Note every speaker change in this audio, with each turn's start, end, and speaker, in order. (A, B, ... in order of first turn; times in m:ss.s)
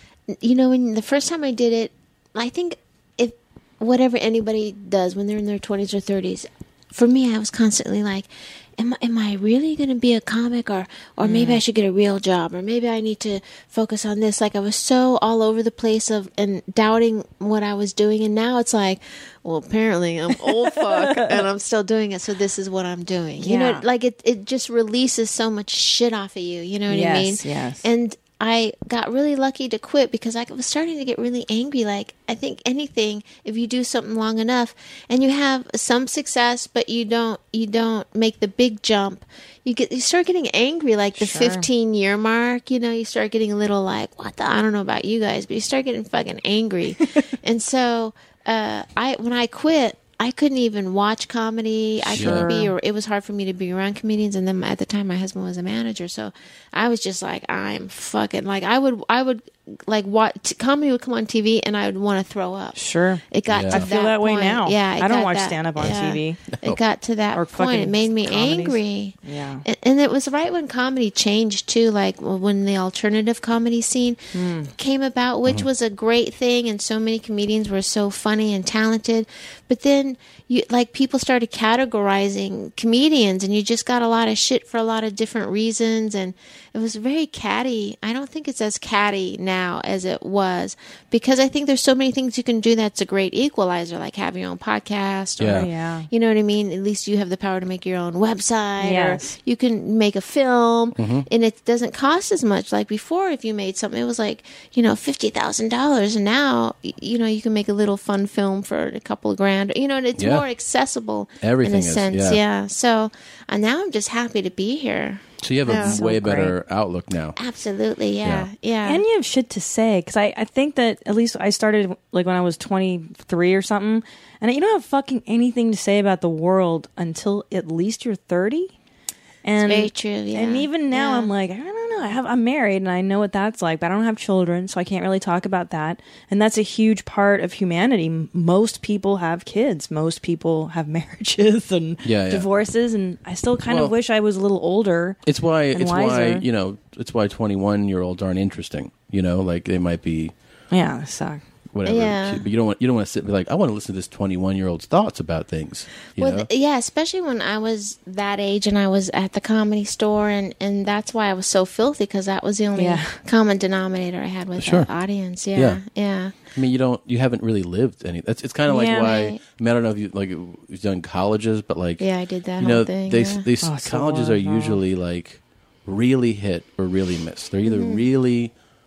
0:00.3-1:02.8 A
0:11.2-0:11.6 B
0:20.9-0:21.4 B
0:23.4-0:23.8 B
0:26.9-0:27.9 B
0:41.2-0:41.7 B
0:52.0-0:52.7 B
0:52.2-0:52.5 C
1:02.8-1:06.4 B
1:03.3-1:14.2 A
1:03.5-1:03.9 C
1:07.3-1:09.6 B
1:14.3-1:14.7 B
1:14.8-1:56.0 A
1:35.4-1:35.7 C
1:35.5-1:36.1 B
1:38.8-1:39.4 B
1:41.0-1:41.2 C
1:50.2-1:50.4 C
1:51.4-1:52.4 C
1:55.4-1:57.4 C
1:55.7-1:56.5 B
1:57.4-1:59.0 A
1:58.8-2:08.7 B
2:09.4-2:25.2 B
2:09.6-2:11.3 A
2:22.0-2:22.5 C
2:23.6-2:23.9 C
2:25.2-2:30.3 C
2:25.7-2:26.4 B
2:30.7-2:31.4 B
2:31.7-2:36.5 C
2:31.8-2:32.4 A
2:36.2-2:46.3 A
2:42.8-2:43.2 B
2:44.6-2:44.9 C
2:45.5-2:45.8 C
2:46.5-2:52.0 C
2:48.7-2:49.3 B
2:49.1-2:49.4 A
2:52.0-2:53.5 A
2:52.6-2:58.5 C
2:53.6-2:54.8 B
2:57.6-2:58.0 A